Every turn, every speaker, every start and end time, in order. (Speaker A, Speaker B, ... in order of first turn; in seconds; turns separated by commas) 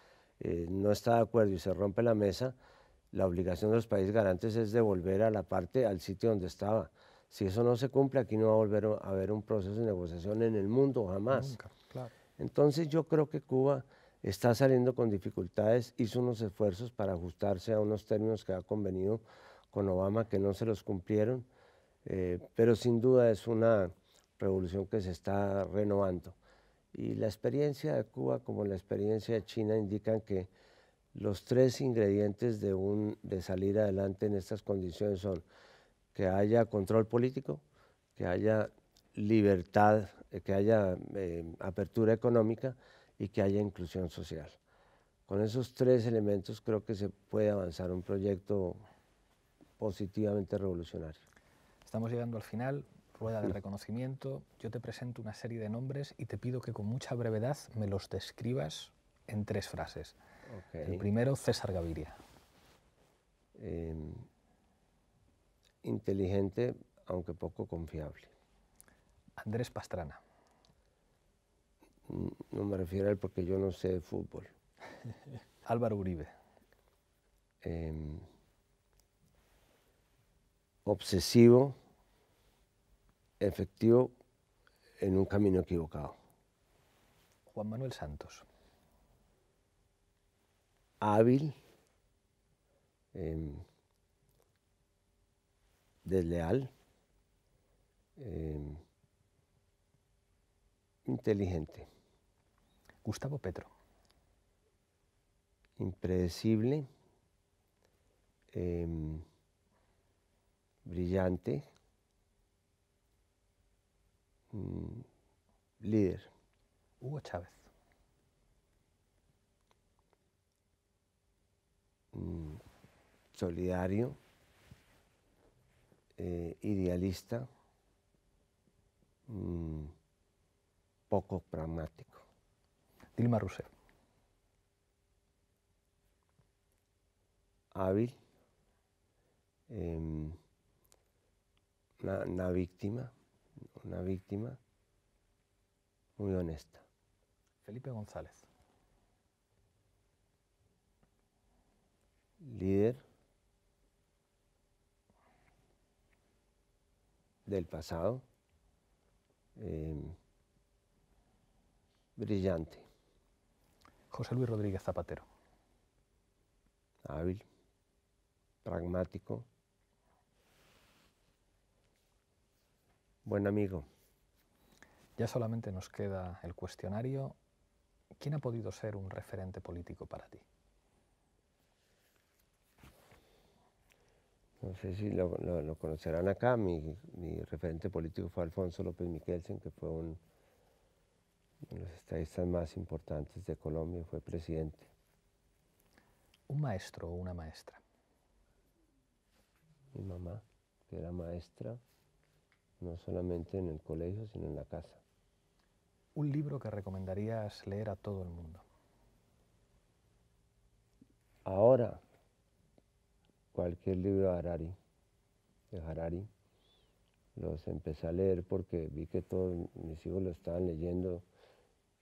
Speaker A: 0.4-2.5, Speaker A: 3.1-11.6, Speaker B: 11.3-12.1, Speaker A: 12.4-21.5, Speaker A: 22.0-26.4, Speaker A: 26.9-30.5, Speaker A: 31.1-35.4, Speaker A: 36.1-37.6, Speaker A: 38.1-44.6, Speaker A: 45.3-48.8, Speaker A: 49.8-51.2, Speaker B: 51.9-60.1, Speaker A: 60.5-61.0, Speaker B: 60.8-62.1, Speaker A: 63.5-64.3, Speaker A: 65.8-68.3, Speaker B: 69.4-70.2, Speaker A: 72.1-74.5, Speaker B: 75.6-76.3, Speaker A: 77.6-78.3, Speaker A: 80.8-81.8, Speaker A: 83.4-84.1, Speaker A: 85.0-86.2, Speaker B: 87.5-88.4, Speaker A: 91.0-91.5, Speaker A: 93.1-93.6, Speaker A: 96.0-96.7, Speaker A: 98.2-98.8, Speaker A: 101.0-101.9, Speaker B: 103.0-103.7, Speaker A: 105.8-106.9, Speaker A: 108.5-109.2, Speaker A: 110.8-111.6, Speaker A: 114.5-115.1, Speaker A: 115.8-116.3, Speaker B: 117.0-117.7, Speaker A: 122.1-122.6, Speaker A: 123.3-124.2, Speaker A: 126.2-127.5, Speaker A: 129.3-129.9, Speaker A: 131.1-132.2, Speaker B: 133.2-133.7, Speaker A: 137.7-138.2, Speaker A: 139.7-140.4, Speaker A: 142.0-143.1, Speaker A: 143.8-144.6, Speaker A: 146.2-146.8, Speaker B: 147.6-148.5, Speaker A: 152.4-153.0, Speaker A: 157.4-158.2, Speaker A: 159.6-160.1, Speaker A: 162.2-162.8, Speaker B: 164.1-165.2, Speaker A: 167.0-167.4, Speaker A: 168.6-169.4, Speaker A: 173.2-173.9, Speaker B: 175.2-177.3, Speaker B: 178.2-180.4, Speaker A: 184.6-190.2, Speaker A: 191.6-194.9, Speaker B: 196.5-197.8, Speaker A: 199.9-201.8, Speaker A: 202.8-205.0, Speaker B: 206.2-208.6, Speaker A: 211.4-212.0, Speaker A: 213.5-214.8, Speaker A: 215.7-216.3, Speaker A: 217.3-221.2